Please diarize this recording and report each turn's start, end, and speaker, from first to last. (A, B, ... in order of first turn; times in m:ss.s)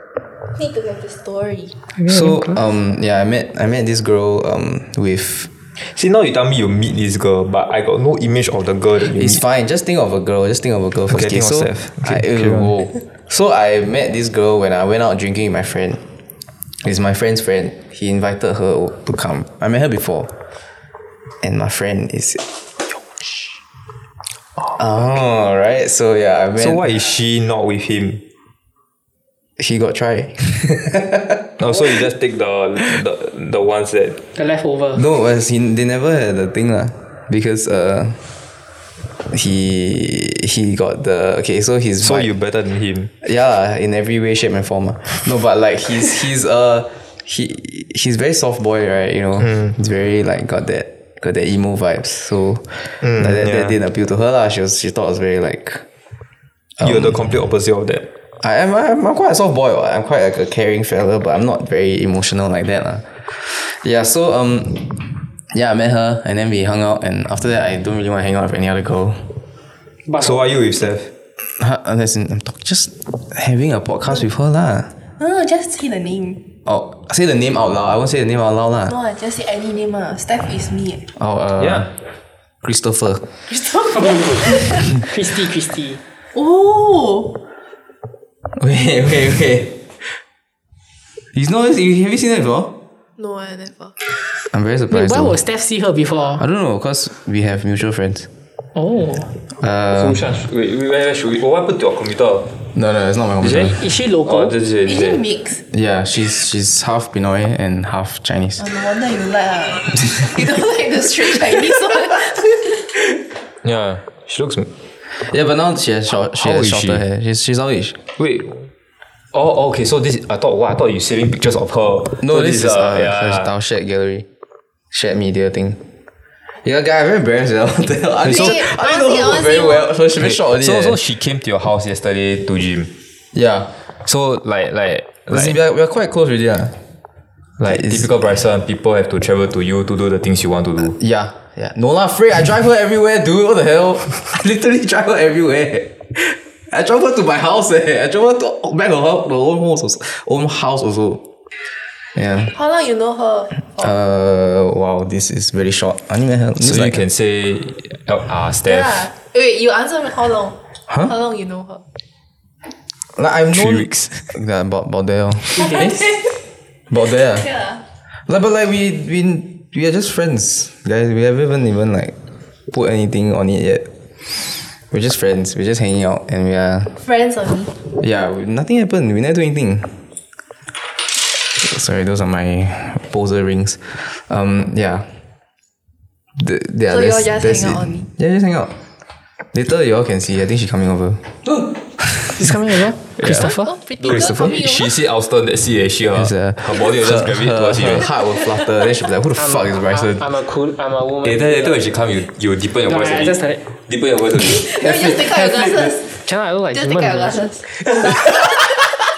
0:00.5-0:01.8 A
0:02.0-0:02.6 B
0:02.0-0:05.5 C
0:05.8-0:09.4 D
0:09.0-0:16.0 C
0:11.1-0:12.8 D
0:16.8-0:20.3 C
0:21.4-0:22.4 C
0:24.7-0:26.8 C
0:26.6-0:28.2 D
0:29.6-0:31.5 C
0:31.6-0:34.2 D
0:34.4-0:35.0 B
0:34.9-0:38.2 C
0:39.3-0:42.3 C
0:42.0-0:43.1 D
0:43.2-0:55.8 C
0:53.0-0:53.7 D
0:56.8-0:57.2 C
0:56.8-0:58.1 D
0:58.4-1:09.3 C
1:10.1-1:10.4 B
1:10.2-1:11.1 D
1:11.6-1:14.9 C
1:15.2-1:16.4 A
1:16.6-1:18.9 C
1:18.8-1:21.0 A
1:21.2-1:21.9 C
1:21.6-1:21.9 D
1:22.6-1:23.2 C
1:23.5-1:26.0 B
1:26.3-1:27.4 A
1:28.6-1:29.8 C
1:31.3-1:32.8 C
1:33.2-1:33.9 A
1:34.5-1:35.4 C
1:34.9-1:36.4 B
1:36.4-1:38.3 C
1:38.7-1:39.3 B
1:39.6-1:40.2 C
1:39.9-1:42.5 D
1:42.7-1:43.8 C
1:43.4-1:45.2 D
1:43.6-1:44.6 B
1:44.8-1:45.6 A
1:45.7-1:48.6 C
1:48.6-1:52.6 A
1:51.5-1:52.0 C
1:53.6-1:54.7 D
1:55.2-1:58.0 C
1:56.3-1:57.0 D
1:58.2-1:58.7 D
1:59.3-2:03.5 D
2:02.2-2:04.3 C
2:04.9-2:05.8 C
2:06.6-2:11.0 C
2:08.2-2:08.6 D
2:08.2-2:09.9 A
2:10.2-2:12.9 D
2:13.3-2:13.7 C
2:14.0-2:15.6 D
2:15.3-2:16.8 C
2:17.6-2:21.0 D
2:17.6-2:18.1 C
2:20.9-2:31.2 C
2:32.1-2:32.5 C
2:32.5-2:33.9 A
2:33.6-2:37.0 C
2:36.6-2:39.0 D
2:38.6-2:41.8 A
2:43.2-2:46.0 C
2:43.5-2:44.3 D
2:45.5-2:46.1 B
2:46.9-2:47.5 C
2:47.4-2:47.8 A
2:48.3-2:52.1 C
2:52.7-2:53.9 C
2:54.9-2:56.9 C
2:56.9-2:57.7 A
2:58.0-3:00.0 C
3:01.6-3:05.1 C
3:06.4-3:08.7 C
3:06.9-3:08.1 A
3:09.5-3:12.5 C
3:12.3-3:13.7 B
3:13.2-3:13.4 D
3:13.2-3:14.9 A
3:14.0-3:18.1 D
3:14.1-3:14.6 C
3:16.1-3:20.2 C
3:19.4-3:21.8 B
3:21.2-3:25.8 D
3:22.8-3:23.6 B
3:24.4-3:26.1 A
3:26.1-3:27.4 B
3:26.7-3:28.4 A
3:28.1-3:28.5 C